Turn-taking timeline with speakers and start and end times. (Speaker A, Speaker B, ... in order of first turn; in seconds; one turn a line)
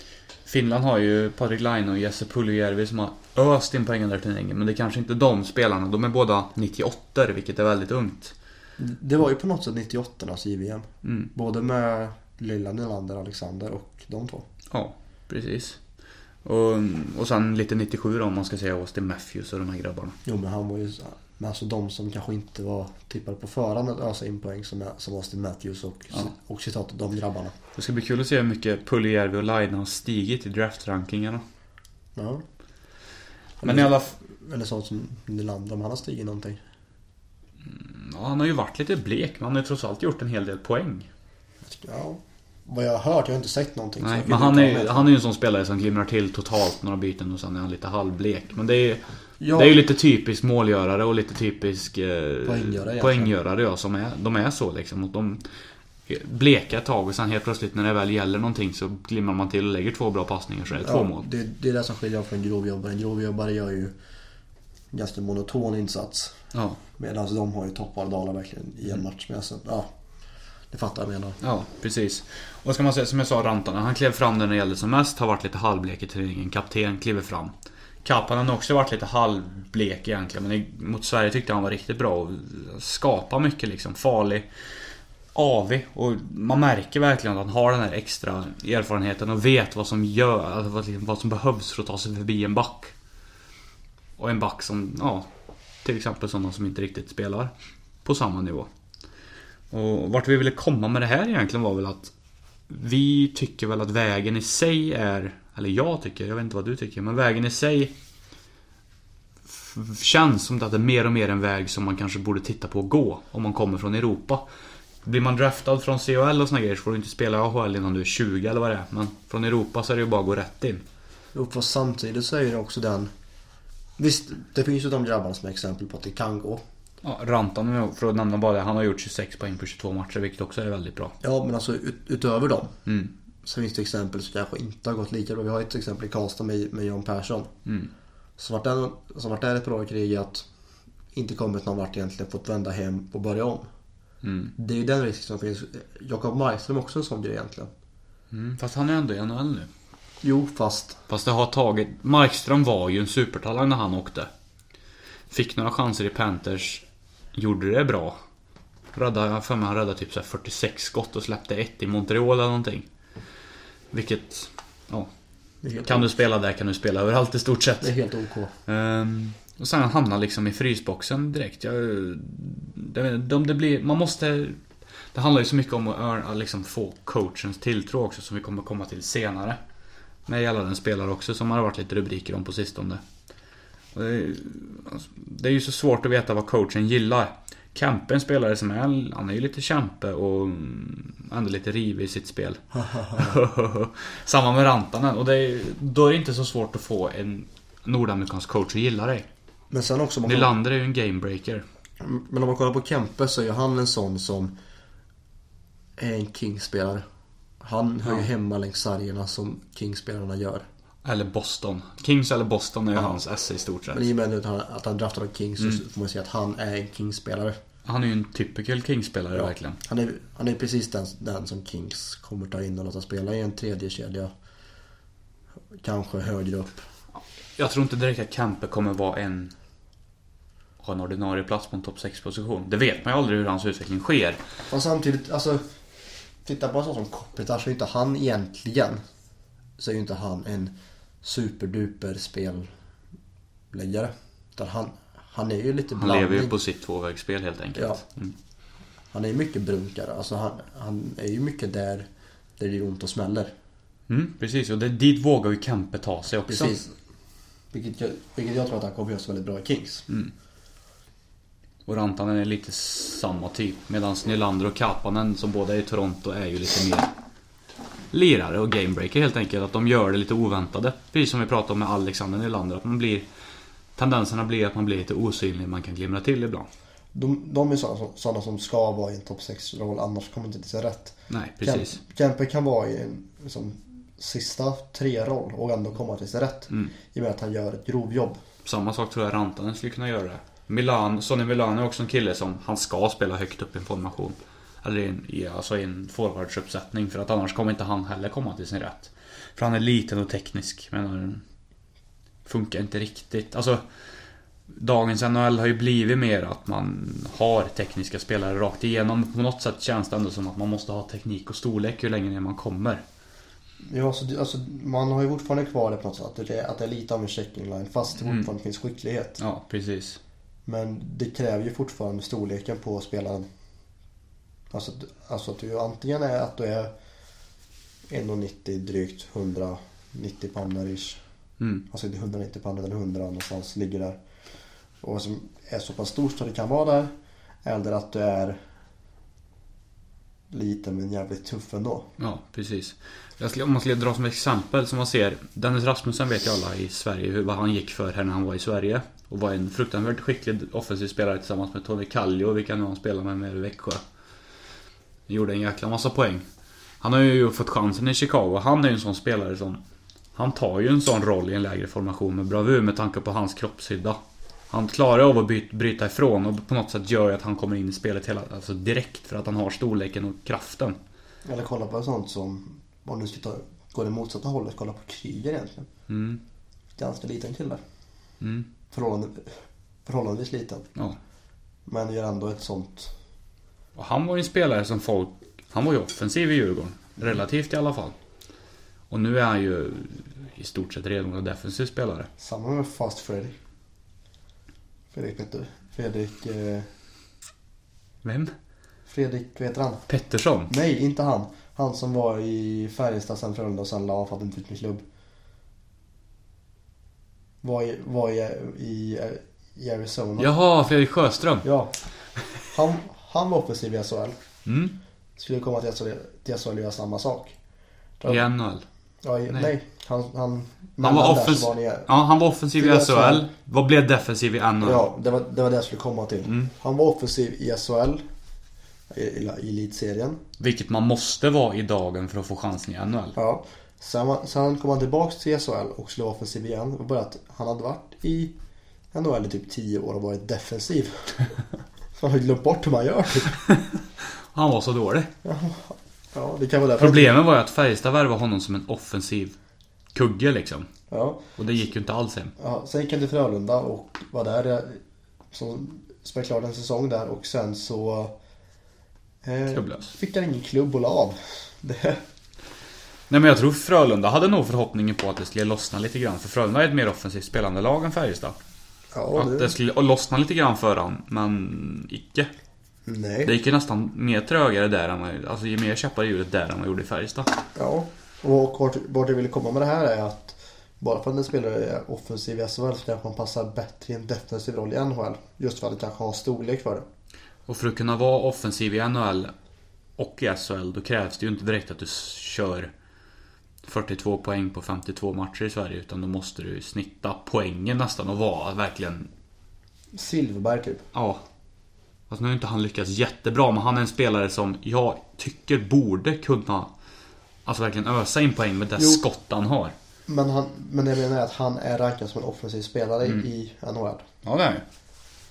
Speaker A: 0.4-8.3
Speaker B: 8.8-14.4
Speaker A: 11.0-11.3
Speaker A: 14.7-15.8
Speaker A: 16.4-20.1
Speaker B: 20.2-27.6
Speaker A: 27.8-31.4
Speaker B: 32.1-32.4
Speaker B: 33.6-36.6
Speaker A: 33.6-34.1
Speaker A: 37.6-41.1
Speaker B: 41.6-45.1
Speaker A: 44.0-55.4
Speaker B: 49.4-49.8
Speaker B: 52.4-53.3
Speaker A: 56.1-61.2
Speaker B: 60.8-63.9
Speaker B: 64.9-66.3
Speaker A: 66.5-66.8
Speaker B: 67.0-69.9
Speaker B: 70.7-71.4
Speaker A: 71.4-77.5
Speaker A: 78.0-84.5
Speaker A: 85.3-92.9
Speaker A: 94.2-95.3
Speaker A: 95.8-97.5
Speaker A: 98.0-98.7
Speaker A: 99.7-102.1
Speaker A: 102.7-107.9
Speaker A: 109.5-114.4
Speaker A: 115.0-120.8
Speaker B: 121.3-123.1
Speaker B: 124.0-126.6
Speaker A: 127.0-131.1
Speaker B: 131.2-132.8
Speaker A: 132.9-133.1
Speaker B: 133.4-137.5
Speaker A: 137.7-137.9
Speaker B: 138.4-140.5
Speaker B: 141.1-143.7
Speaker A: 144.2-144.5
Speaker B: 144.6-147.7
Speaker A: 148.3-149.7
Speaker B: 150.2-151.0
Speaker A: 151.1-154.3
Speaker A: 155.3-158.2
Speaker A: 158.9-162.9
Speaker A: 163.9-165.1
Speaker B: 165.6-166.1
Speaker A: 165.8-167.9
Speaker B: 167.8-168.5
Speaker A: 168.7-174.6
Speaker A: 175.1-179.6
Speaker A: 180.3-183.0
Speaker A: 183.9-199.2
Speaker B: 192.7-193.3
Speaker B: 199.7-200.5
Speaker A: 200.2-201.6
Speaker B: 202.0-204.5
Speaker B: 206.0-207.0
Speaker B: 207.6-210.7
Speaker A: 211.0-214.0
Speaker B: 213.9-217.6
Speaker A: 217.9-219.8
Speaker B: 219.3-224.3
Speaker B: 225.7-226.8
Speaker A: 227.6-229.5
Speaker A: 230.8-234.4
Speaker B: 234.7-235.6
Speaker B: 236.4-239.0
Speaker B: 239.8-242.7
Speaker B: 243.7-246.5
Speaker A: 245.9-248.3
Speaker B: 247.7-248.0
Speaker B: 249.1-253.5
Speaker A: 254.1-256.8
Speaker B: 256.5-256.9
Speaker B: 257.7-260.1
Speaker A: 261.9-267.1
Speaker A: 268.1-273.2
Speaker A: 273.9-276.7
Speaker B: 277.1-288.4
Speaker A: 281.3-282.0
Speaker A: 288.6-301.4
Speaker A: 302.4-303.8
Speaker A: 304.7-313.0
Speaker B: 313.8-319.4
Speaker A: 319.4-320.2
Speaker B: 320.6-323.5
Speaker B: 324.7-326.9
Speaker B: 328.1-331.2
Speaker A: 331.6-331.9
Speaker B: 331.9-334.2
Speaker B: 335.0-337.1
Speaker B: 337.6-338.6
Speaker B: 340.5-342.1
Speaker A: 342.2-354.0
Speaker A: 355.3-356.4
Speaker A: 357.0-359.8
Speaker A: 360.4-364.2
Speaker A: 364.7-371.0
Speaker B: 371.4-375.9
Speaker A: 376.1-376.4
Speaker B: 376.9-377.8
Speaker A: 378.4-378.7
Speaker B: 378.9-380.9
Speaker B: 381.9-383.1
Speaker A: 383.9-388.1
Speaker A: 389.1-392.3
Speaker B: 392.4-393.6
Speaker B: 395.1-396.9
Speaker A: 398.2-398.5
Speaker B: 399.1-400.0
Speaker A: 400.1-400.7
Speaker B: 400.7-405.0
Speaker B: 407.6-410.5
Speaker A: 410.4-411.7
Speaker B: 411.6-411.9
Speaker B: 412.7-414.4
Speaker A: 414.6-414.9
Speaker B: 415.4-417.5
Speaker A: 418.2-418.9
Speaker B: 419.2-422.1
Speaker A: 421.0-425.0
Speaker B: 422.8-423.4
Speaker B: 424.8-428.2
Speaker A: 426.4-426.7
Speaker B: 429.1-430.4
Speaker A: 430.6-433.4
Speaker B: 433.4-438.5
Speaker B: 439.1-441.5
Speaker B: 442.1-443.6
Speaker A: 443.7-445.3
Speaker B: 445.4-447.4
Speaker A: 447.0-449.6
Speaker A: 450.1-450.9
Speaker B: 451.1-451.4
Speaker A: 451.6-452.5
Speaker B: 452.6-458.4
Speaker B: 459.4-462.2
Speaker A: 459.7-460.1
Speaker A: 463.3-468.6
Speaker B: 469.1-469.7
Speaker A: 469.3-472.5
Speaker B: 473.1-473.5
Speaker A: 473.4-477.6
Speaker B: 477.7-487.1
Speaker A: 487.7-489.5
Speaker A: 490.2-492.9
Speaker A: 493.8-499.3
Speaker B: 500.1-501.1
Speaker A: 501.1-501.4
Speaker A: 502.3-506.9
Speaker A: 507.6-509.9
Speaker B: 509.0-509.2
Speaker B: 510.3-514.2
Speaker A: 514.4-514.9